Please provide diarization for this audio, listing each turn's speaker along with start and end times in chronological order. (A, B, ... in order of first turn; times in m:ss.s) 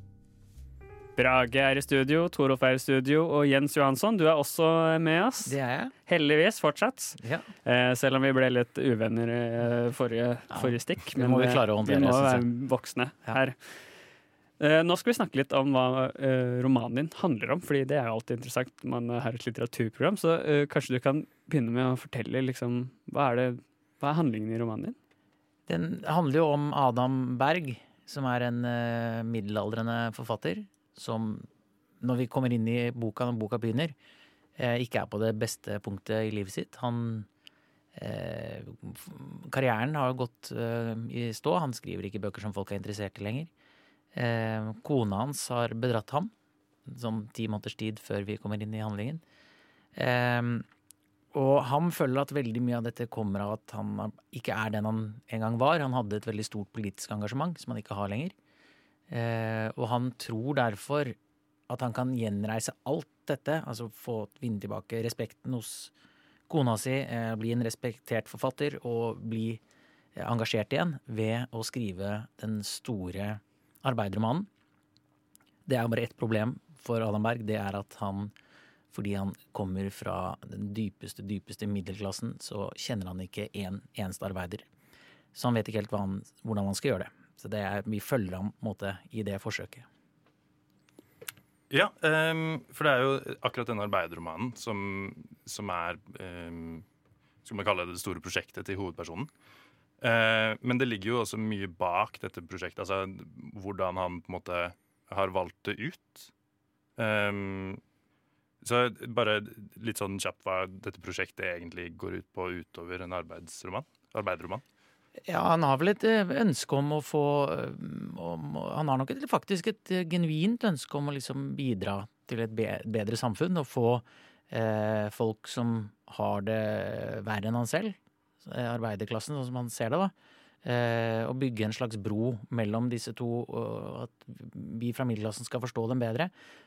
0:01.2-0:05.5 A
0:05.4-0:05.9 B
0:06.1-0:13.6 A
0:07.2-0:07.5 B
0:10.5-0:12.4 B
0:14.6-0:25.0 A
0:25.7-0:31.5 B
0:32.0-0:33.9 B
0:34.6-0:37.3 B
0:37.9-0:43.5 B
0:44.1-0:46.3 B
0:46.8-0:49.2 B
0:49.9-0:50.7 B
0:51.3-0:58.3 B
0:59.1-1:01.2 B
1:01.7-1:05.9 B
1:06.5-1:09.6 B
1:10.1-1:14.5 B
1:15.6-1:18.3 B
1:18.9-1:24.7 B
1:25.3-1:29.8 B
1:31.7-1:36.8 C
1:37.4-1:39.3 C
1:40.0-1:46.3 C
1:47.0-1:47.8 C
1:48.6-1:54.6 C
1:55.3-2:10.1 B
2:10.6-2:16.3 B